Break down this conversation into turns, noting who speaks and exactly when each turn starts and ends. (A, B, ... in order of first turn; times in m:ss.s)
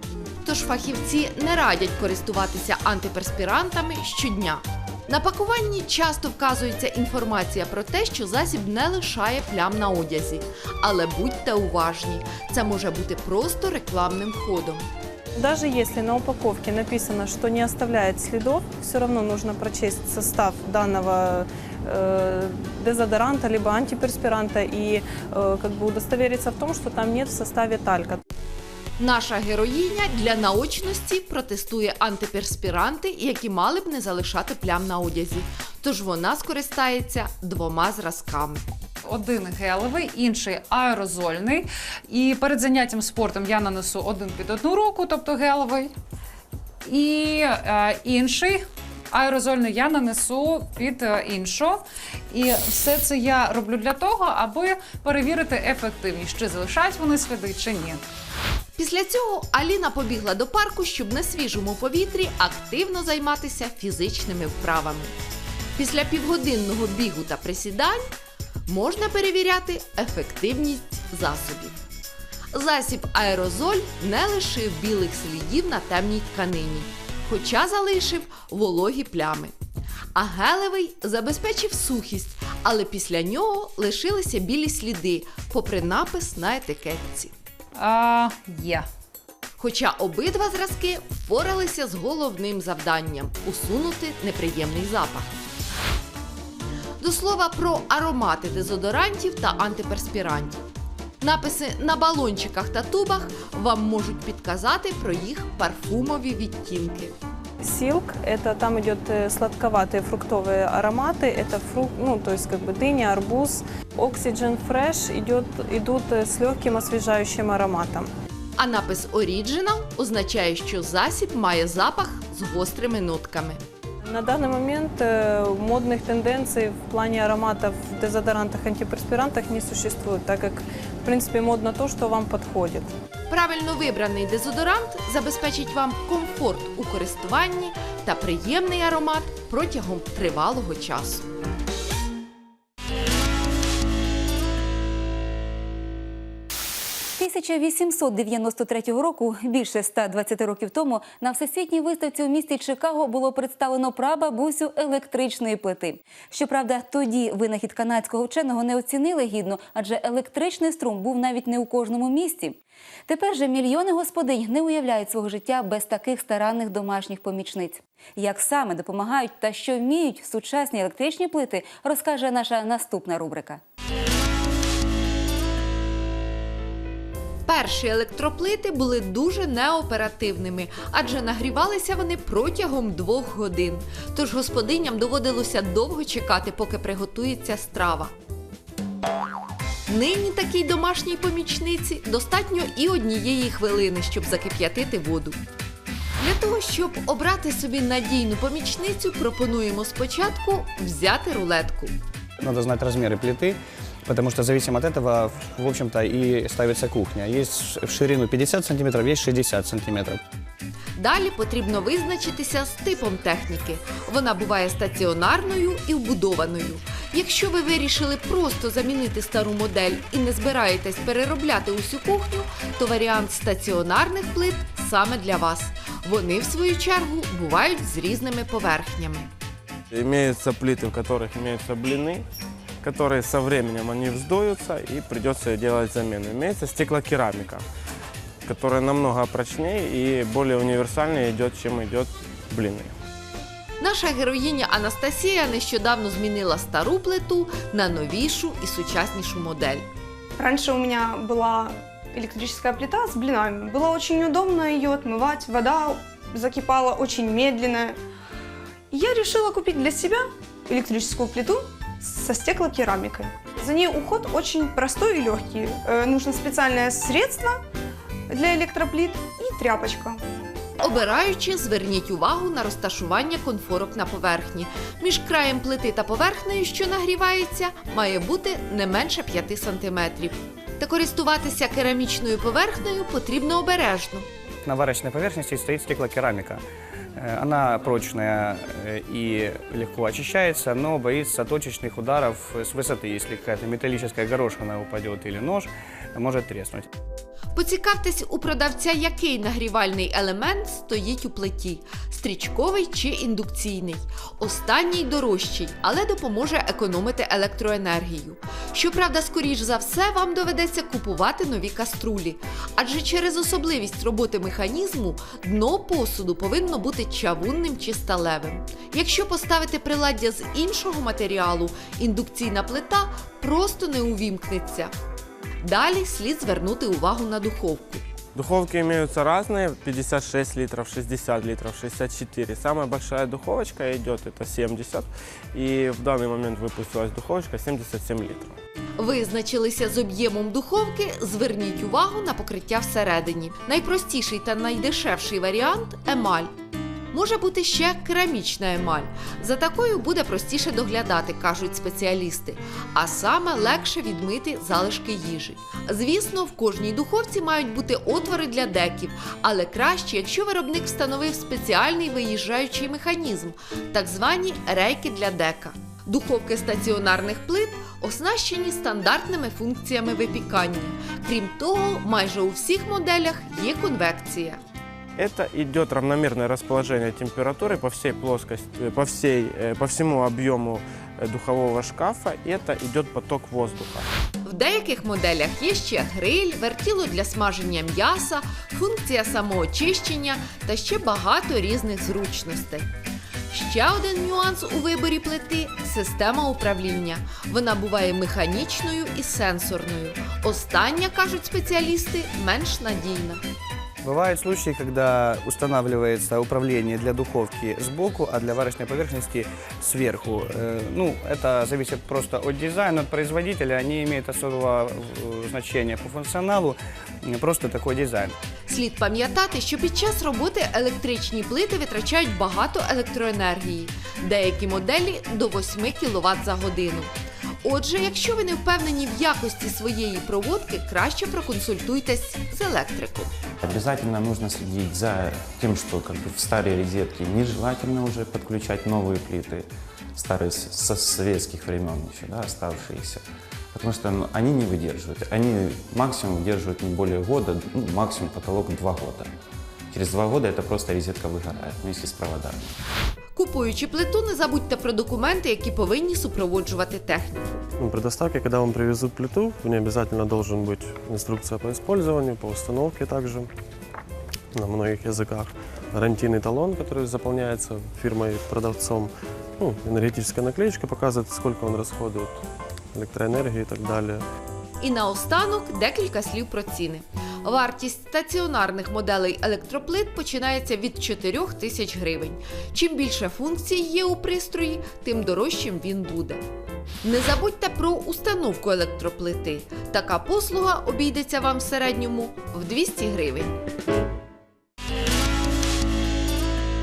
0:00.4-0:14.9 A
0:15.4-0:28.2 B
0:29.0-0:38.6 A
0:39.0-0:45.9 C
0:46.8-0:58.0 C
0:58.8-1:05.1 A
1:05.8-1:08.0 A
1:08.7-1:11.8 A
1:12.5-1:19.5 A
1:20.2-1:27.3 A
1:27.8-1:28.9 C
1:29.6-1:35.4 A
1:37.0-1:40.6 A
1:41.2-1:47.1 A
1:47.6-1:58.1 B
1:58.6-2:03.6 A
2:04.0-2:12.9 B
2:13.3-2:21.2 A
2:27.2-2:53.6 D
2:57.5-3:08.1 A
3:09.9-3:15.4 A
3:16.2-3:21.9 A
3:22.4-3:30.2 E
3:31.0-3:49.3 A
3:49.9-3:52.2 F
3:52.8-3:57.6 F
3:58.4-4:03.0 F
4:03.8-4:09.9 A
4:10.4-4:18.0 G
4:18.9-4:27.6 G
4:28.3-4:30.2 G
4:30.8-4:44.3 A
4:44.6-4:46.6 E
4:47.2-4:56.9 E
4:57.6-5:24.9 A
5:25.6-5:28.0 A
5:28.4-5:38.6 F
5:39.0-5:46.5 A
5:47.1-6:14.6 A
6:15.2-6:24.1 F
6:24.4-6:32.9 A
6:33.5-6:43.4 A
6:44.0-6:58.4 E
6:58.7-7:07.1 A
7:07.6-7:13.3 A
7:13.6-7:29.3 H
7:29.9-7:32.7 H
7:33.4-7:37.6 A
7:37.8-7:43.5 I
7:44.6-7:52.4 I
7:52.9-7:54.2 I
7:54.8-8:06.4 A
8:07.0-8:13.5 A